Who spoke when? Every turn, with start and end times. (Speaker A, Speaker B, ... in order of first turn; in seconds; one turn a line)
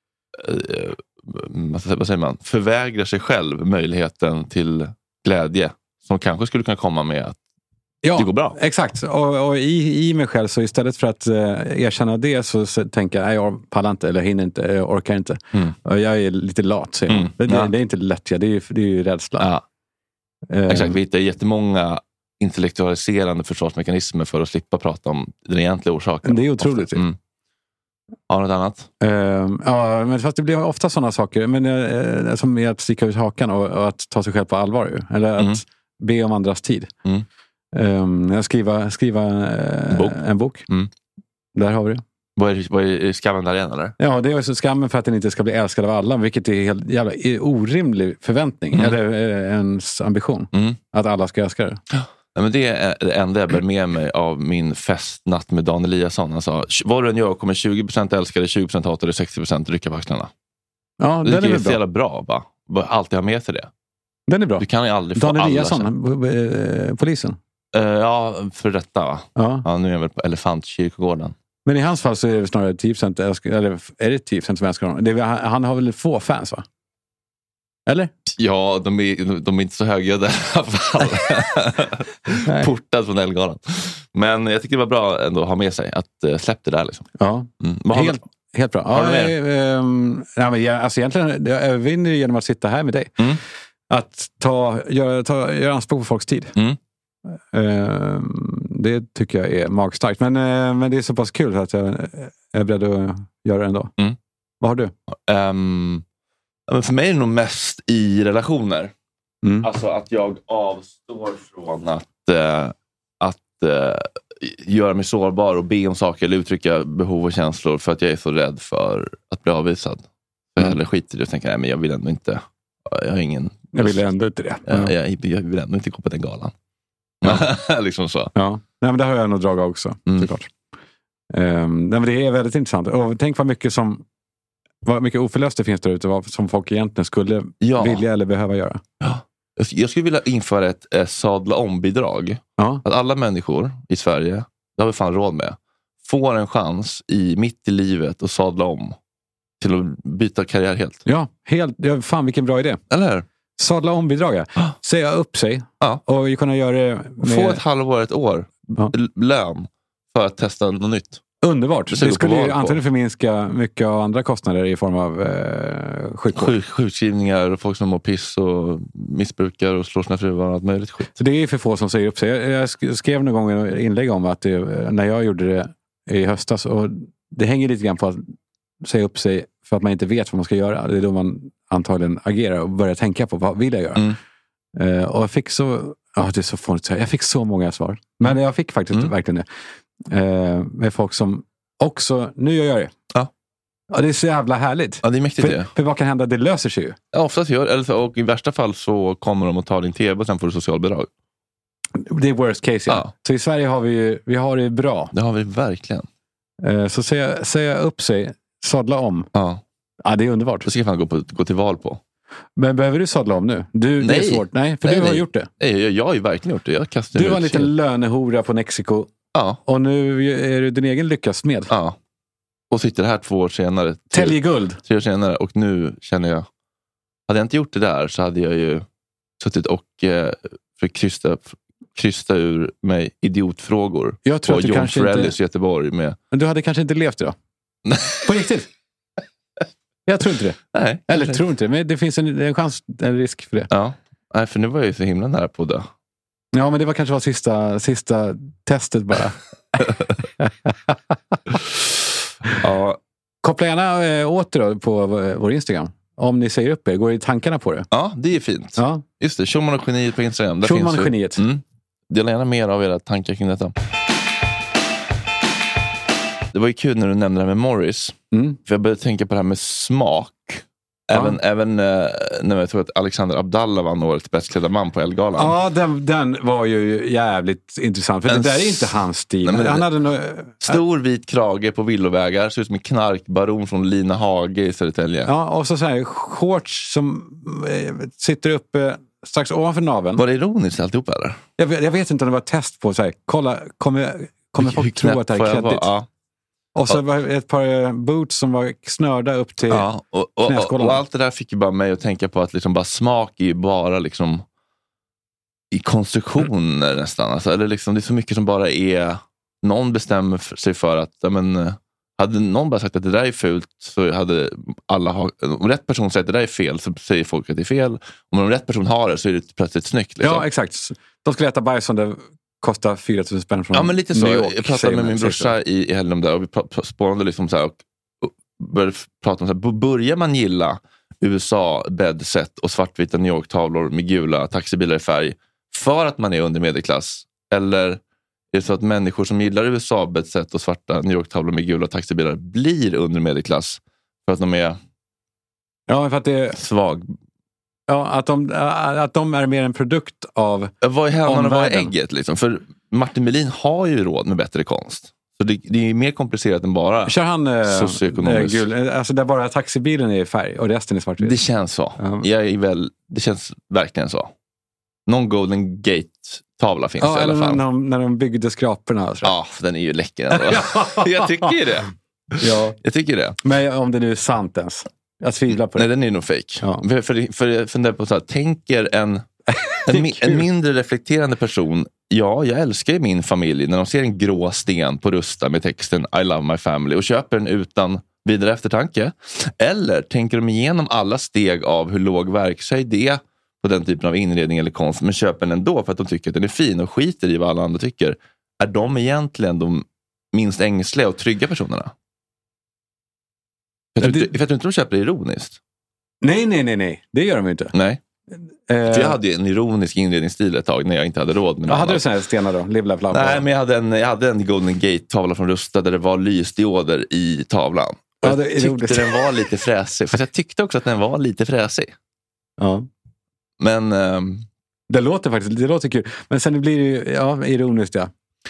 Speaker A: 0.3-7.4
Speaker B: 8.0-19.5
Speaker A: 8.1-8.6
Speaker A: 17.1-17.7
Speaker A: 19.4-19.6
Speaker B: 20.5-21.0
Speaker A: 20.7-27.2
Speaker B: 26.2-27.0
Speaker A: 28.3-28.9
Speaker B: 29.0-36.9
Speaker B: 37.7-40.6
Speaker A: 39.9-40.9
Speaker B: 41.5-42.0
Speaker A: 42.4-43.9
Speaker B: 44.0-51.8
Speaker A: 50.5-50.8
Speaker A: 51.9-60.3
Speaker B: 61.0-61.8
Speaker A: 61.2-63.7
Speaker B: 64.3-67.4
Speaker A: 64.6-65.9
Speaker A: 67.7-71.3
Speaker B: 69.3-69.6
Speaker B: 71.6-76.6
Speaker A: 78.3-88.2
Speaker B: 87.2-93.2
Speaker A: 88.9-89.3
Speaker B: 93.9-96.5
Speaker B: 97.3-103.9
Speaker B: 104.6-104.9
Speaker A: 105.1-106.0
Speaker A: 106.7-108.9
Speaker B: 109.4-109.7
Speaker A: 109.6-124.0
Speaker B: 123.7-124.9
Speaker A: 124.7-126.5
Speaker A: 127.2-128.3
Speaker B: 128.3-130.5
Speaker B: 131.3-134.0
Speaker B: 134.8-138.8
Speaker A: 137.6-138.0
Speaker A: 139.0-148.9
Speaker B: 142.6-142.8
Speaker A: 149.6-151.0
Speaker B: 151.1-152.8
Speaker A: 152.9-153.2
Speaker B: 153.6-157.6
Speaker A: 157.2-161.2
Speaker B: 161.4-166.5
Speaker A: 161.9-162.8
Speaker A: 166.3-171.1
Speaker B: 171.1-184.1
Speaker B: 184.7-189.4
Speaker B: 190.1-192.9
Speaker B: 193.9-197.0
Speaker A: 195.0-195.7
Speaker A: 197.1-201.1
Speaker B: 201.9-205.1
Speaker A: 205.1-206.1
Speaker B: 206.6-209.3
Speaker A: 209.3-209.6
Speaker B: 210.0-210.7
Speaker A: 210.6-212.0
Speaker B: 212.6-215.5
Speaker A: 214.0-217.7
Speaker B: 217.1-219.1
Speaker A: 219.3-219.6
Speaker B: 219.7-221.7
Speaker A: 221.7-222.0
Speaker A: 222.7-226.5
Speaker B: 224.1-224.8
Speaker A: 227.3-228.8
Speaker A: 229.4-236.2
Speaker B: 234.2-235.3
Speaker B: 236.3-237.3
Speaker A: 237.9-238.2
Speaker B: 238.2-238.7
Speaker B: 240.1-243.7
Speaker A: 240.7-241.4
Speaker A: 243.7-245.9
Speaker B: 246.5-249.4
Speaker B: 250.4-250.9
Speaker A: 252.5-253.0
Speaker B: 253.4-257.9
Speaker A: 257.9-263.7
Speaker B: 258.8-259.0
Speaker B: 260.6-261.4
Speaker A: 266.5-275.6
Speaker B: 268.3-268.6
Speaker B: 271.1-271.4
Speaker B: 275.4-280.8
Speaker A: 278.3-279.9
Speaker A: 280.6-285.3
Speaker B: 285.2-290.2
Speaker A: 290.2-291.4
Speaker B: 291.6-295.9
Speaker A: 294.6-296.1
Speaker B: 296.7-299.9
Speaker A: 299.7-304.4
Speaker B: 300.4-301.0
Speaker A: 305.7-320.4
Speaker B: 320.2-325.5
Speaker A: 323.7-338.0
Speaker A: 338.5-344.8
Speaker B: 345.9-346.6
Speaker A: 346.5-347.1
Speaker B: 347.9-350.7
Speaker A: 350.8-358.7
Speaker B: 351.2-351.9
Speaker B: 357.1-361.4
Speaker A: 361.2-364.3
Speaker B: 362.0-362.2
Speaker A: 365.1-367.6
Speaker B: 367.0-369.3
Speaker A: 369.2-373.4
Speaker B: 370.3-371.6
Speaker B: 372.4-372.8
Speaker B: 373.4-375.9
Speaker A: 375.7-379.3
Speaker B: 379.5-380.4
Speaker A: 379.9-401.9
Speaker A: 403.9-405.6
Speaker B: 404.0-404.3
Speaker B: 406.2-407.7
Speaker A: 407.7-408.0
Speaker B: 408.7-409.2
Speaker A: 408.9-412.0
Speaker B: 411.6-413.4
Speaker A: 413.1-421.9
Speaker B: 418.2-419.2
Speaker B: 422.6-422.9
Speaker A: 423.6-424.4
Speaker B: 424.9-428.1